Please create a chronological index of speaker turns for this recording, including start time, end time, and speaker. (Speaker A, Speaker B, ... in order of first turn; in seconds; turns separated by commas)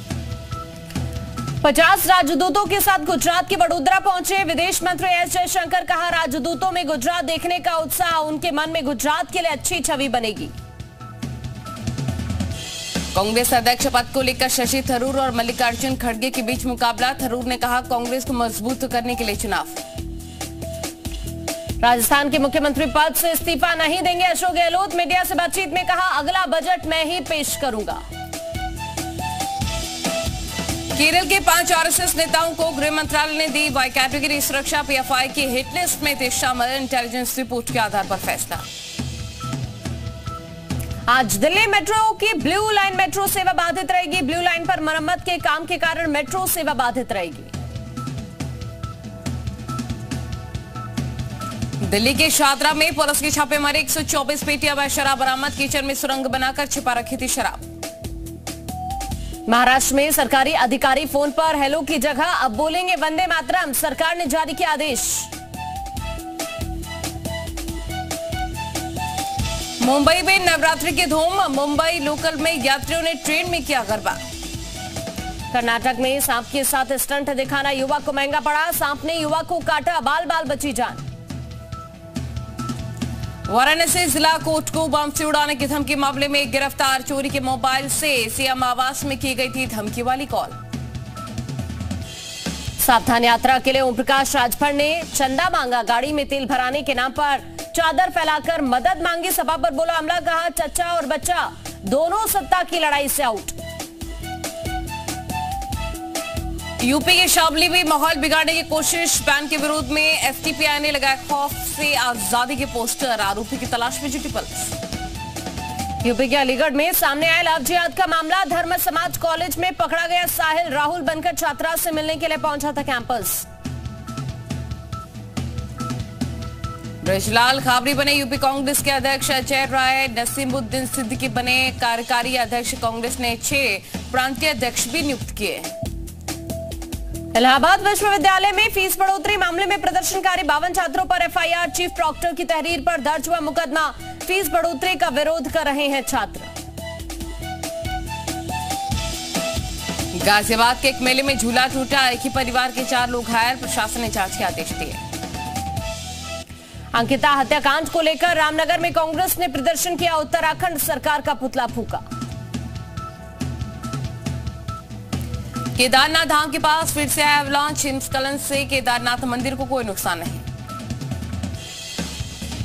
Speaker A: 1.6-10.5, Speaker B: 13.1-19.8, Speaker A: 21.8-28.0, Speaker B: 30.9-38.6, Speaker A: 41.1-47.5, Speaker B: 51.8-57.6, Speaker A: 59.5-65.3, Speaker B: 69.8-74.2, Speaker A: 75.5-81.0, Speaker B: 83.5-90.5, Speaker A: 92.8-103.6, Speaker B: 106.8-114.7, Speaker A: 116.0-123.5, Speaker B: 127.0-135.7, Speaker A: 137.3-146.5, Speaker B: 150.1-155.0, Speaker A: 156.9-162.0, Speaker B: 165.8-170.4